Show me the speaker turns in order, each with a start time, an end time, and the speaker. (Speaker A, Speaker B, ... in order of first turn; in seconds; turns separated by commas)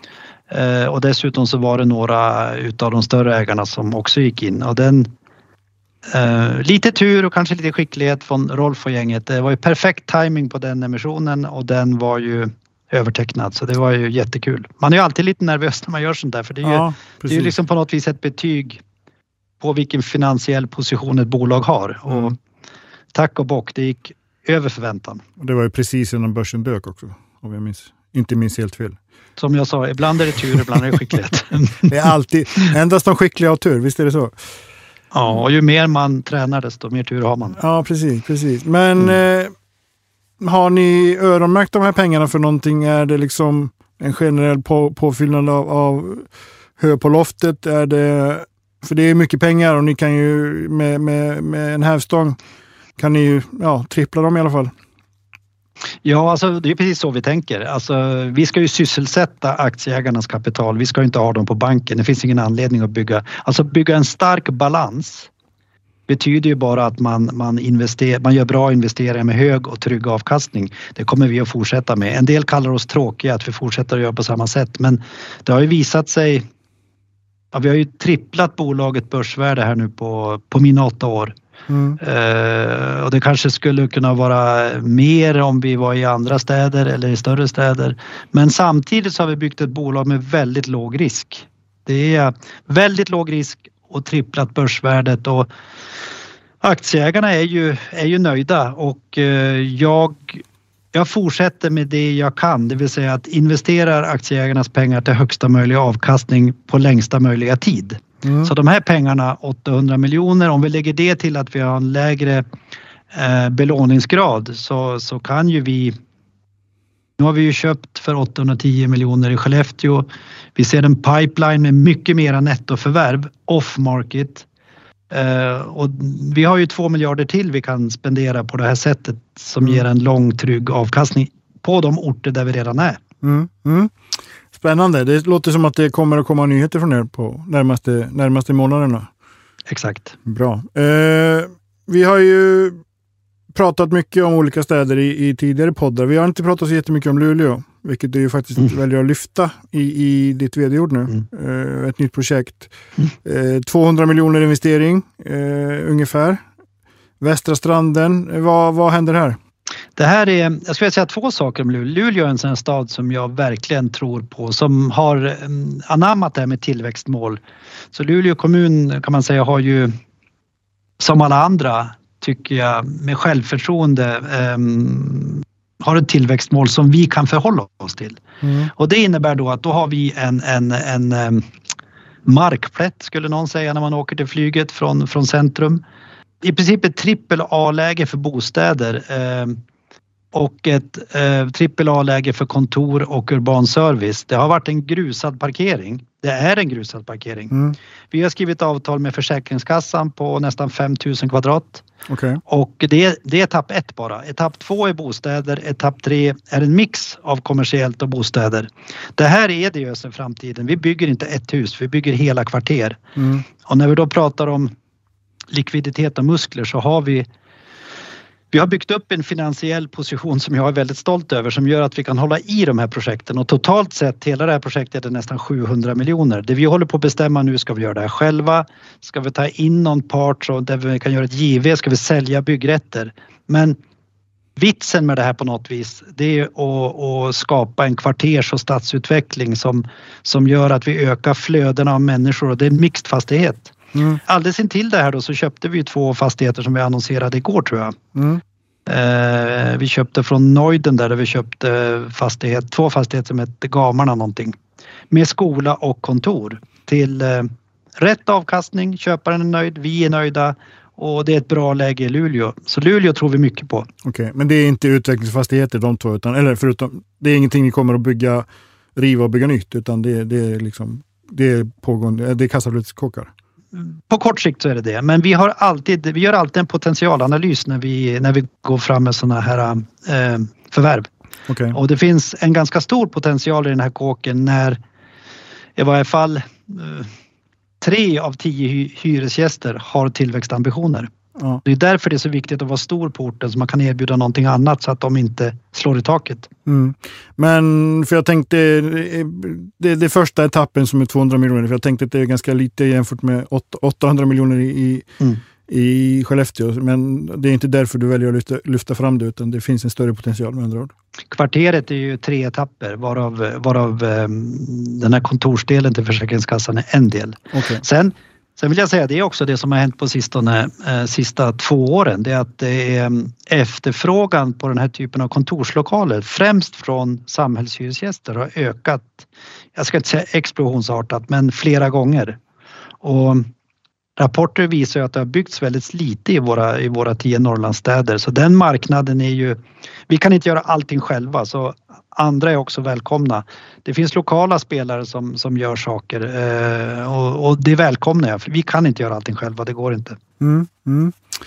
Speaker A: 0.5-5.1, Speaker A: 6.1-18.8, Speaker B: 16.6-17.6, Speaker A: 19.6-22.4, Speaker A: 23.1-25.2, Speaker B: 25.4-29.0, Speaker A: 29.4-31.9, Speaker B: 31.9-34.4, Speaker A: 35.1-37.6, Speaker B: 37.6-39.5, Speaker B: 40.4-46.3, Speaker B: 46.8-52.4, Speaker B: 53.0-54.7, Speaker A: 56.0-65.3, Speaker A: 66.1-76.4, Speaker A: 77.5-81.3, Speaker B: 81.7-82.0, Speaker A: 82.0-95.5, Speaker A: 96.6-112.4, Speaker B: 108.2-108.5, Speaker A: 113.1-115.9, Speaker A: 117.2-124.5, Speaker A: 125.1-133.0, Speaker B: 133.2-133.9, Speaker B: 134.5-139.1, Speaker A: 139.7-140.1, Speaker B: 140.3-142.8, Speaker B: 143.5-152.7, Speaker B: 153.2-156.4, Speaker B: 157.2-159.4, Speaker A: 160.0-167.4, Speaker A: 167.9-169.9, Speaker A: 171.0-178.2, Speaker B: 178.4-178.7, Speaker A: 178.8-181.5, Speaker A: 182.3-185.8, Speaker A: 186.4-189.6, Speaker A: 190.3-197.5, Speaker B: 197.5-197.8, Speaker A: 198.1-201.8, Speaker B: 202.1-202.4, Speaker A: 202.5-213.0, Speaker B: 213.2-213.4, Speaker A: 213.6-214.7, Speaker A: 215.5-217.3, Speaker A: 218.5-233.8, Speaker A: 234.6-248.0, Speaker B: 243.9-244.2, Speaker B: 248.1-248.4, Speaker A: 248.9-254.6, Speaker A: 255.1-263.9, Speaker B: 264.0-273.3, Speaker A: 273.7-281.1, Speaker B: 281.5-281.8, Speaker A: 281.7-284.8, Speaker A: 285.8-287.1, Speaker A: 287.8-291.1, Speaker A: 291.6-296.5, Speaker B: 296.6-305.1, Speaker B: 305.7-310.9, Speaker A: 311.3-332.4, Speaker B: 317.5-317.8, Speaker A: 333.0-333.5, Speaker A: 334.2-350.2, Speaker B: 350.4-351.1